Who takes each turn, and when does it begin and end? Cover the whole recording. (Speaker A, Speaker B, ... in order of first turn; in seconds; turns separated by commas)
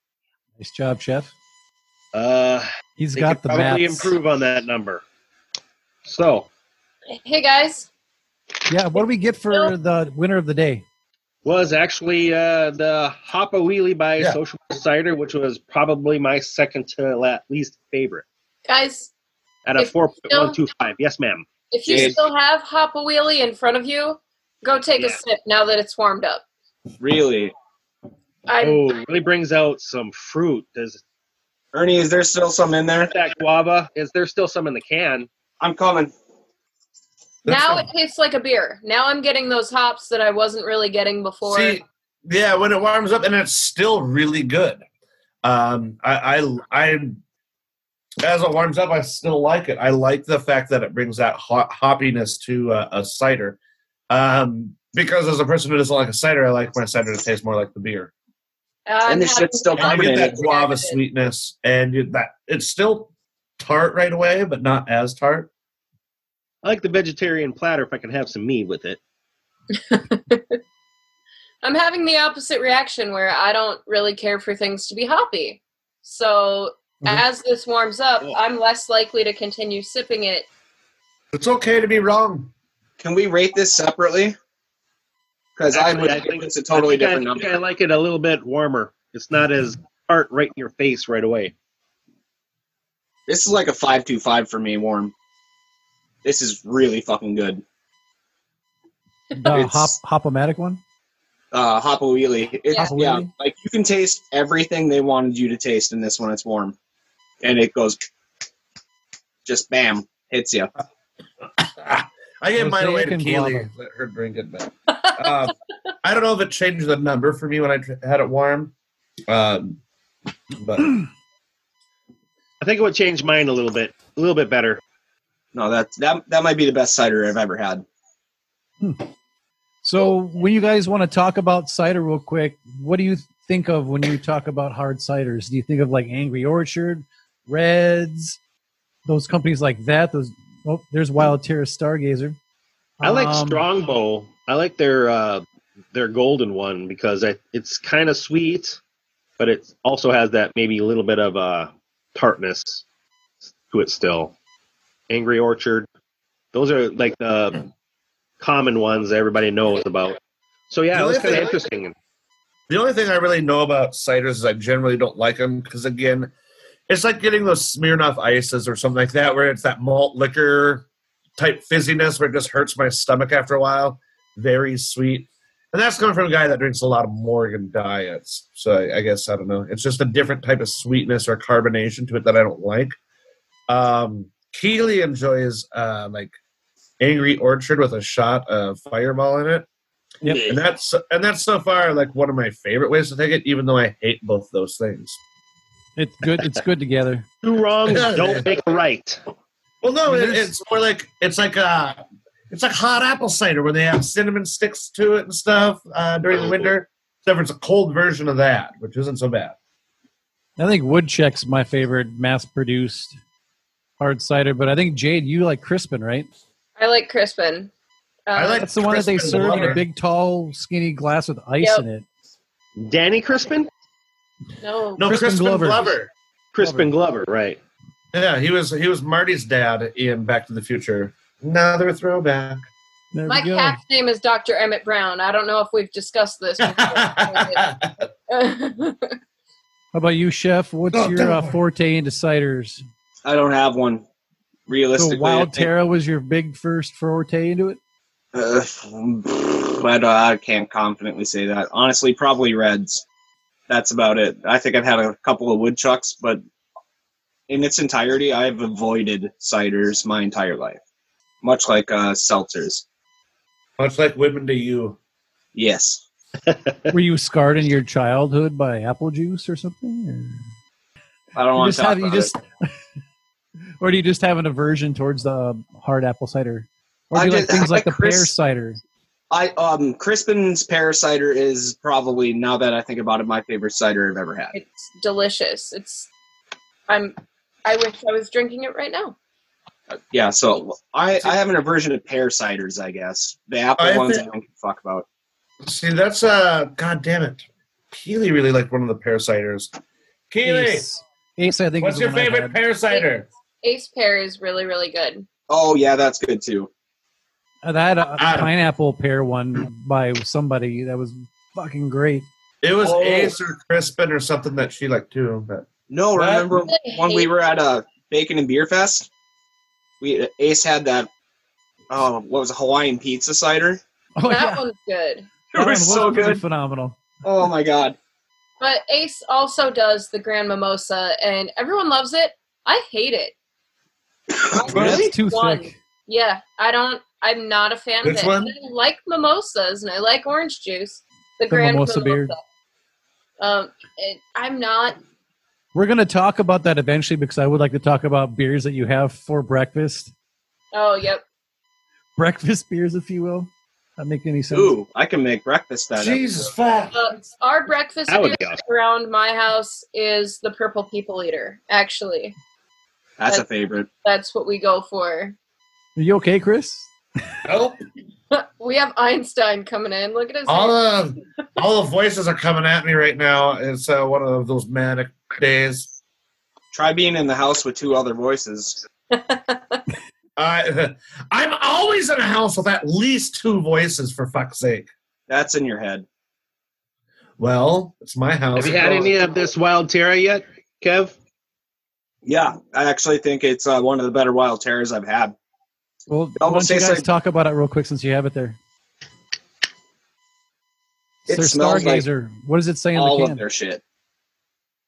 Speaker A: 0.6-1.3, Speaker B: 2.1-5.0, Speaker A: 3.0-4.1, Speaker B: 6.0-6.5, Speaker C: 7.1-7.9, Speaker A: 8.7-10.8, Speaker C: 8.9-9.7, Speaker B: 11.4-18.2, Speaker C: 18.6-19.1, Speaker B: 19.6-22.1, Speaker C: 19.8-20.6, Speaker C: 21.7-26.4, Speaker D: 21.9-22.2, Speaker D: 27.0-27.5, Speaker C: 28.5-28.9, Speaker B: 28.6-31.0, Speaker D: 31.7-33.1, Speaker B: 33.1-35.3, Speaker D: 35.6-36.1, Speaker E: 37.5-37.9, Speaker C: 37.5-41.8, Speaker E: 41.4-44.8, Speaker E: 45.4-47.2, Speaker E: 48.2-53.6, Speaker E: 54.1-58.1, Speaker C: 58.9-61.0, Speaker D: 59.0-60.4, Speaker E: 59.8-65.5, Speaker B: 66.6-69.0, Speaker C: 69.9-70.6, Speaker C: 71.6-80.5, Speaker E: 81.3-82.5, Speaker D: 83.0-84.3, Speaker D: 85.5-87.6, Speaker B: 85.7-91.5, Speaker D: 93.3-95.1, Speaker D: 96.2-97.6, Speaker A: 99.3-100.8, Speaker D: 99.5-99.9, Speaker D: 101.5-106.7, Speaker C: 102.7-103.0, Speaker A: 102.8-103.3, Speaker D: 107.4-108.0, Speaker D: 109.4-110.7, Speaker E: 111.6-118.7, Speaker A: 112.6-113.7, Speaker C: 114.9-115.3, Speaker E: 119.3-119.8, Speaker E: 120.5-121.0, Speaker B: 122.6-124.8, Speaker D: 125.5-127.8, Speaker A: 129.8-138.4, Speaker A: 139.1-142.4, Speaker A: 143.0-143.6, Speaker B: 143.0-148.8, Speaker B: 149.4-152.8, Speaker B: 153.5-154.3, Speaker B: 155.1-155.9, Speaker B: 156.5-157.7, Speaker B: 158.4-160.2, Speaker B: 160.7-161.9, Speaker E: 160.9-161.6, Speaker E: 162.7-166.3, Speaker E: 166.9-170.8, Speaker E: 171.4-182.9, Speaker E: 183.7-186.3, Speaker E: 187.0-189.7, Speaker A: 190.2-190.5, Speaker E: 190.4-195.2, Speaker A: 195.9-197.2, Speaker B: 197.4-199.2, Speaker E: 197.9-198.5, Speaker E: 199.8-209.6, Speaker A: 200.1-200.5, Speaker B: 206.4-206.7, Speaker A: 210.6-213.2, Speaker A: 214.0-216.3, Speaker C: 216.8-217.7, Speaker C: 218.3-218.7, Speaker E: 218.3-219.8, Speaker A: 218.6-222.0, Speaker C: 219.2-219.8, Speaker C: 221.6-221.8, Speaker B: 222.8-223.7, Speaker C: 224.6-225.2, Speaker E: 225.0-226.1, Speaker A: 225.0-225.9, Speaker B: 226.5-227.6, Speaker A: 226.6-226.9, Speaker E: 228.1-232.7, Speaker A: 233.1-233.8, Speaker C: 233.3-237.6, Speaker E: 236.6-237.9, Speaker C: 238.3-239.1, Speaker A: 239.9-242.8, Speaker E: 240.9-241.6, Speaker D: 243.2-244.0, Speaker D: 244.7-245.7, Speaker A: 245.0-247.8, Speaker D: 248.3-253.0, Speaker D: 253.7-256.4, Speaker D: 257.5-260.8, Speaker D: 261.4-262.8, Speaker E: 263.8-265.0, Speaker D: 265.5-266.0, Speaker B: 266.5-266.9, Speaker A: 266.9-270.4, Speaker D: 271.3-272.3, Speaker A: 271.5-272.7, Speaker A: 273.8-278.8, Speaker D: 277.1-278.3, Speaker D: 279.3-284.5, Speaker C: 284.5-286.1, Speaker C: 286.9-289.1, Speaker D: 289.9-295.1, Speaker E: 293.8-294.2, Speaker E: 295.6-299.7, Speaker E: 300.3-300.9, Speaker A: 300.4-302.6, Speaker E: 301.8-303.3, Speaker C: 302.9-305.2, Speaker D: 305.5-306.7, Speaker A: 307.6-312.2, Speaker E: 308.2-308.5, Speaker E: 312.6-316.5, Speaker D: 312.8-313.4, Speaker D: 315.9-319.1, Speaker C: 316.5-317.3, Speaker D: 320.0-321.1, Speaker D: 321.9-323.8, Speaker A: 324.1-324.6, Speaker C: 324.2-325.4, Speaker D: 325.5-326.4, Speaker A: 325.5-327.0, Speaker D: 327.2-328.0, Speaker C: 328.6-333.3, Speaker D: 334.5-335.1, Speaker C: 334.5-342.4, Speaker A: 334.7-335.7, Speaker E: 334.8-335.0, Speaker E: 338.0-338.5, Speaker A: 341.5-342.3, Speaker C: 343.4-345.0, Speaker A: 345.7-350.1, Speaker C: 350.7-351.2, Speaker A: 352.2-354.7, Speaker D: 354.5-356.2, Speaker E: 355.9-356.9, Speaker C: 356.9-362.4, Speaker B: 358.1-358.6, Speaker D: 363.2-363.9, Speaker C: 364.0-365.4, Speaker A: 365.9-366.9, Speaker E: 367.4-367.8, Speaker C: 368.3-370.8, Speaker E: 370.5-375.9, Speaker D: 376.7-378.8, Speaker C: 379.1-379.8, Speaker E: 380.4-384.9, Speaker D: 385.3-386.1, Speaker E: 387.4-389.2, Speaker B: 388.5-391.1, Speaker D: 392.2-395.3, Speaker A: 396.1-398.6, Speaker D: 396.4-397.1, Speaker D: 401.3-402.1, Speaker A: 401.3-403.4, Speaker D: 402.9-403.8